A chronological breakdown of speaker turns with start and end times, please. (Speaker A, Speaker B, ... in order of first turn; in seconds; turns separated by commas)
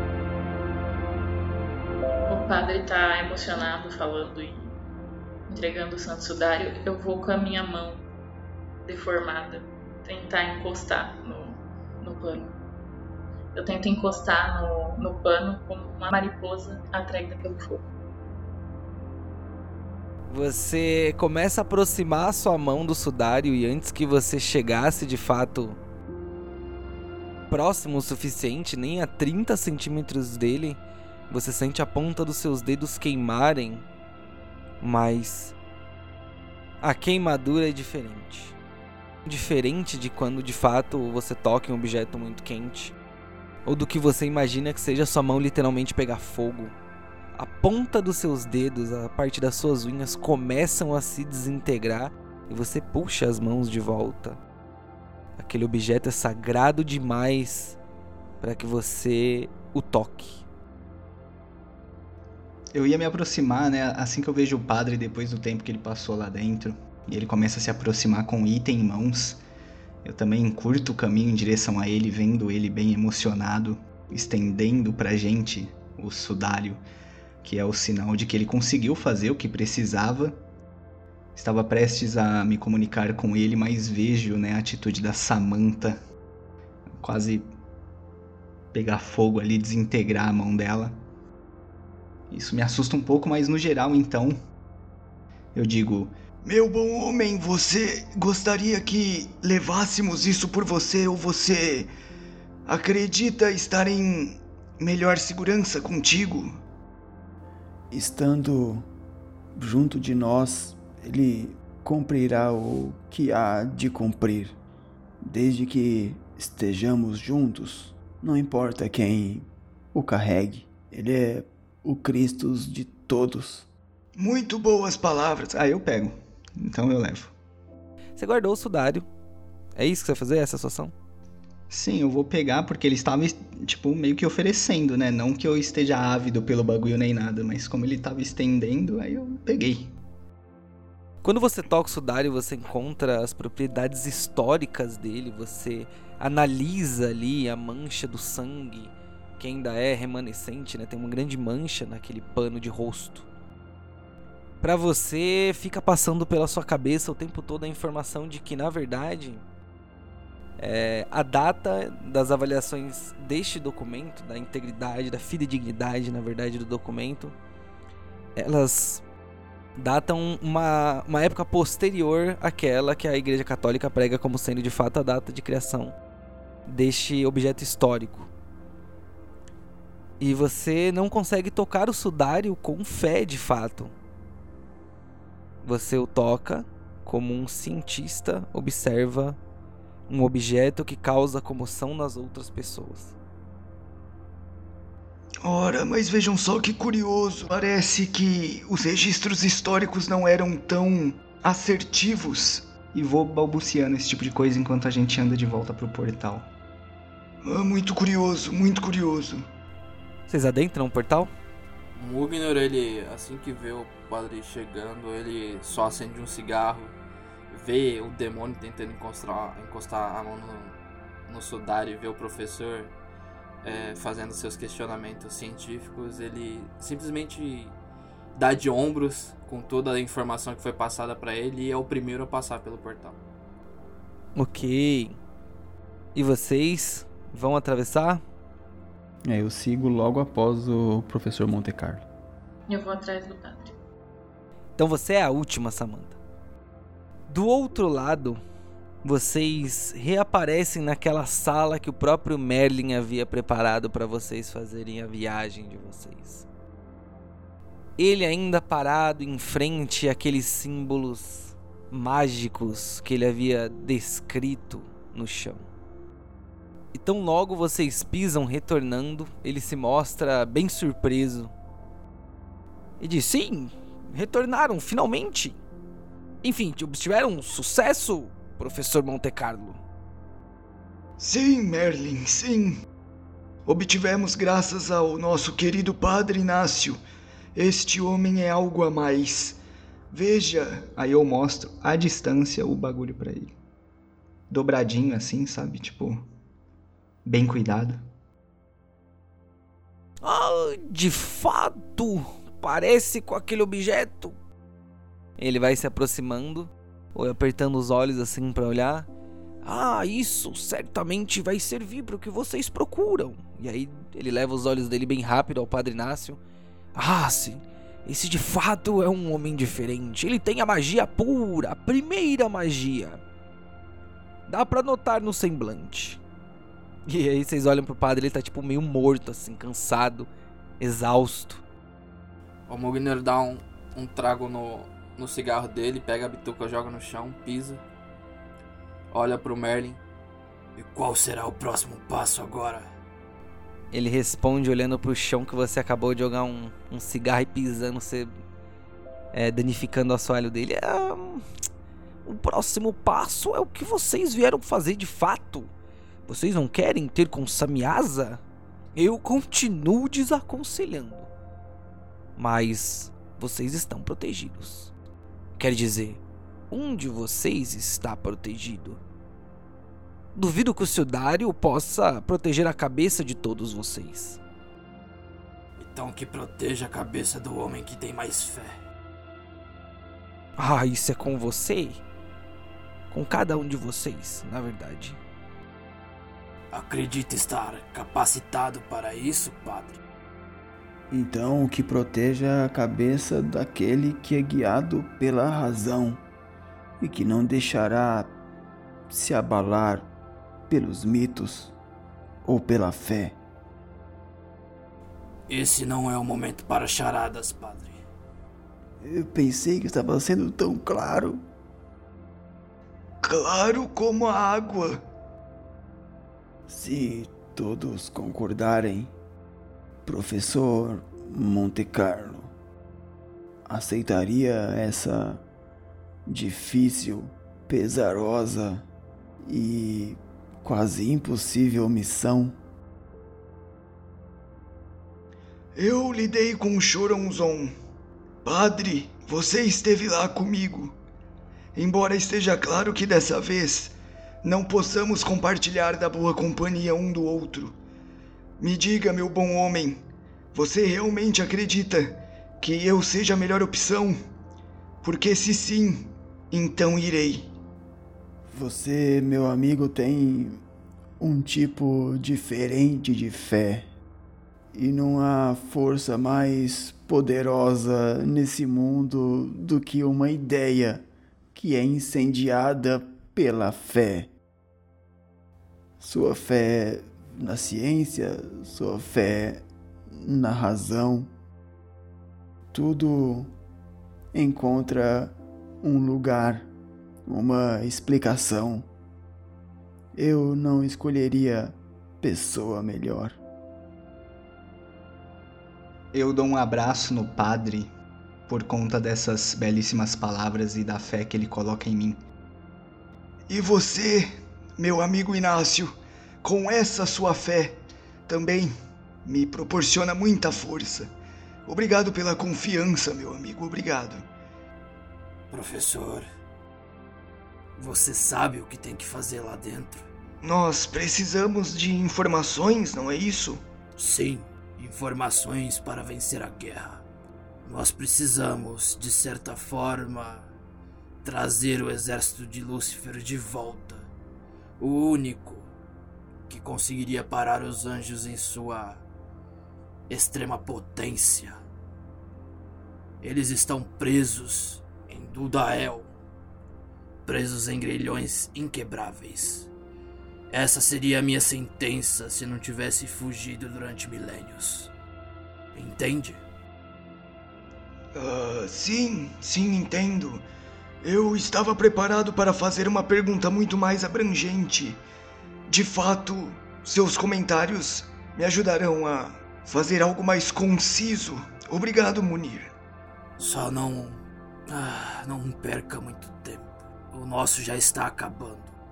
Speaker A: 2.3-4.7, Speaker A: 5.5-8.1, Speaker A: 8.8-12.6, Speaker A: 13.5-17.9, Speaker B: 20.3-25.8, Speaker B: 27.5-33.9, Speaker B: 34.8-35.5, Speaker B: 36.8-38.6, Speaker B: 39.2-43.0, Speaker B: 43.6-46.8, Speaker B: 47.4-54.4, Speaker B: 55.4-57.8, Speaker B: 58.4-60.5, Speaker C: 62.7-69.4, Speaker C: 70.0-76.8, Speaker C: 77.4-80.4, Speaker C: 81.3-86.0, Speaker C: 87.0-87.5, Speaker C: 88.7-91.0, Speaker C: 92.3-94.4, Speaker C: 95.5-101.9, Speaker C: 102.7-106.6, Speaker D: 107.9-108.9, Speaker D: 109.6-114.6, Speaker D: 115.2-123.7, Speaker C: 124.2-127.3, Speaker B: 128.2-129.1, Speaker B: 129.8-130.9, Speaker C: 131.7-139.9, Speaker B: 141.2-153.3, Speaker B: 154.6-159.4, Speaker B: 160.6-167.4, Speaker B: 168.4-169.1, Speaker B: 169.8-175.9, Speaker B: 176.7-178.3, Speaker B: 180.2-183.9, Speaker B: 185.6-189.4, Speaker B: 190.1-193.2, Speaker C: 195.4-206.5, Speaker C: 207.4-209.4, Speaker B: 210.3-211.3, Speaker E: 212.0-216.9, Speaker E: 217.5-222.9, Speaker E: 223.6-227.8, Speaker E: 228.3-233.2, Speaker B: 234.3-235.2, Speaker B: 236.2-238.2, Speaker D: 239.2-242.1, Speaker A: 242.7-243.7, Speaker B: 244.8-246.2, Speaker B: 247.3-248.4, Speaker B: 249.0-256.5, Speaker B: 258.0-265.7, Speaker B: 266.9-271.5, Speaker B: 273.0-275.6, Speaker B: 276.4-279.8, Speaker C: 281.2-282.8, Speaker C: 283.7-287.0, Speaker C: 287.6-289.6, Speaker C: 290.1-293.5, Speaker C: 294.5-296.3, Speaker C: 297.2-298.0, Speaker B: 300.2-304.4, Speaker B: 305.4-309.1, Speaker B: 309.6-316.4, Speaker B: 316.9-323.2, Speaker B: 324.5-326.2, Speaker B: 327.1-330.3, Speaker B: 330.8-331.6, Speaker E: 332.7-337.8, Speaker E: 339.1-340.0, Speaker E: 340.8-342.9, Speaker B: 343.9-348.3, Speaker B: 349.3-351.5, Speaker B: 352.2-355.7, Speaker B: 356.3-358.4, Speaker B: 358.9-361.3, Speaker B: 362.4-364.9, Speaker B: 365.6-369.0, Speaker B: 370.4-374.4, Speaker E: 375.8-378.8, Speaker B: 380.6-382.0, Speaker B: 383.1-385.2, Speaker E: 386.7-390.0, Speaker D: 391.1-396.2, Speaker D: 397.0-398.4, Speaker D: 399.1-400.1, Speaker D: 400.7-401.7, Speaker D: 402.4-403.4, Speaker E: 405.5-408.0, Speaker D: 409.0-411.4, Speaker C: 413.2-415.0, Speaker D: 416.7-419.1, Speaker D: 420.1-422.5, Speaker D: 423.7-425.4, Speaker D: 426.3-428.9, Speaker D: 429.4-432.6, Speaker C: 435.8-437.7, Speaker C: 438.4-441.0, Speaker C: 441.8-447.8, Speaker C: 448.6-454.2, Speaker C: 455.0-457.5, Speaker D: 458.5-460.6, Speaker D: 461.2-463.9, Speaker D: 464.7-474.3, Speaker D: 476.0-481.3, Speaker D: 482.7-483.5, Speaker D: 484.3-486.7, Speaker D: 487.3-488.9, Speaker D: 490.1-493.4, Speaker C: 496.1-497.9, Speaker C: 498.5-502.2, Speaker C: 503.5-508.7, Speaker C: 509.2-511.1, Speaker C: 511.7-514.3, Speaker E: 515.5-516.3, Speaker E: 517.8-520.1, Speaker C: 520.4-523.6, Speaker E: 524.0-527.0, Speaker E: 527.6-530.5, Speaker E: 531.2-534.1, Speaker E: 534.8-535.7, Speaker E: 536.5-539.0, Speaker E: 540.1-541.6, Speaker E: 543.2-546.1, Speaker E: 547.2-549.7, Speaker E: 550.5-554.9, Speaker E: 555.7-556.4, Speaker C: 558.1-560.5, Speaker C: 561.0-565.0, Speaker C: 565.7-572.7, Speaker E: 573.4-578.7